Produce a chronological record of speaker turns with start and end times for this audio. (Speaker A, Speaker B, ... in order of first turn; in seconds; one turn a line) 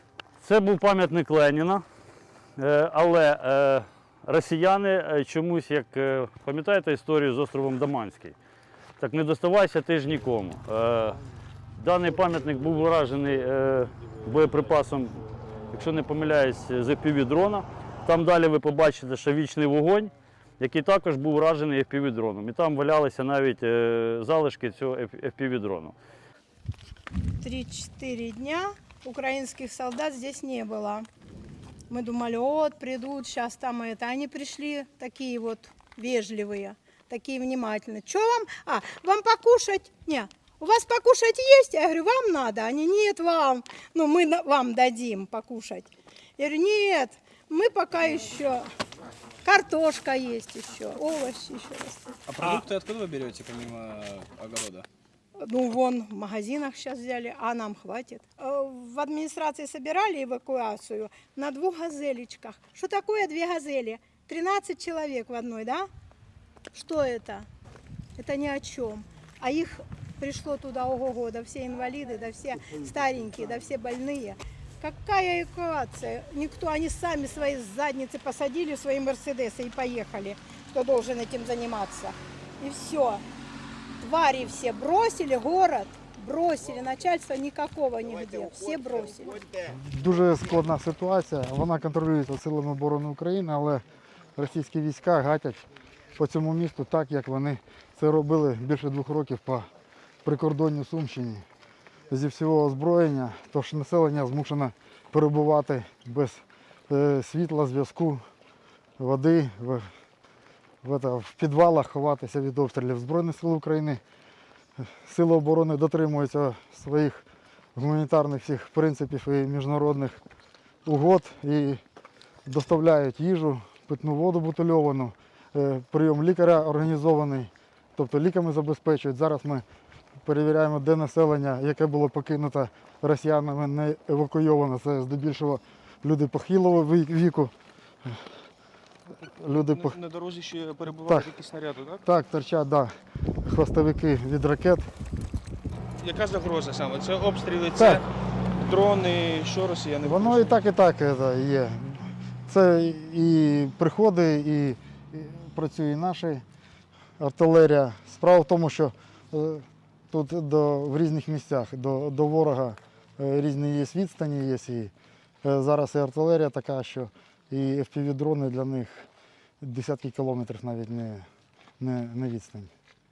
Speaker A: 0.4-1.8
Speaker A: 2.6-8.3
Speaker A: 9.0-11.2
Speaker A: 11.8-15.2
Speaker A: 15.7-25.9
Speaker B: 27.4-31.1
Speaker B: 31.9-48.7
Speaker B: 49.4-52.0
Speaker C: 52.3-54.9
Speaker B: 55.4-65.9
Speaker B: 66.7-67.5
Speaker B: 68.2-83.2
Speaker B: 84.0-89.4
Speaker D: 89.6-93.8
Speaker D: 94.4-95.6
Speaker D: 96.2-99.7
Speaker D: 100.2-101.4
Speaker D: 102.1-108.2
Speaker D: 109.0-109.9
Speaker D: 110.8-114.0
Speaker D: 114.8-120.2
Speaker D: 120.8-121.8
Speaker D: 122.5-129.7
Speaker D: 130.2-137.5
Speaker D: 139.2-140.0
Speaker E: 139.5-142.0
Speaker D: 140.9-141.3
Speaker D: 142.1-142.9
Speaker D: 143.4-144.9
Speaker E: 146.0-148.1
Speaker D: 147.8-148.1
Speaker E: 148.6-150.6
Speaker D: 150.0-156.4
Speaker D: 157.2-164.9
Speaker D: 165.4-169.1
Speaker D: 169.6-171.3
Speaker D: 171.8-172.7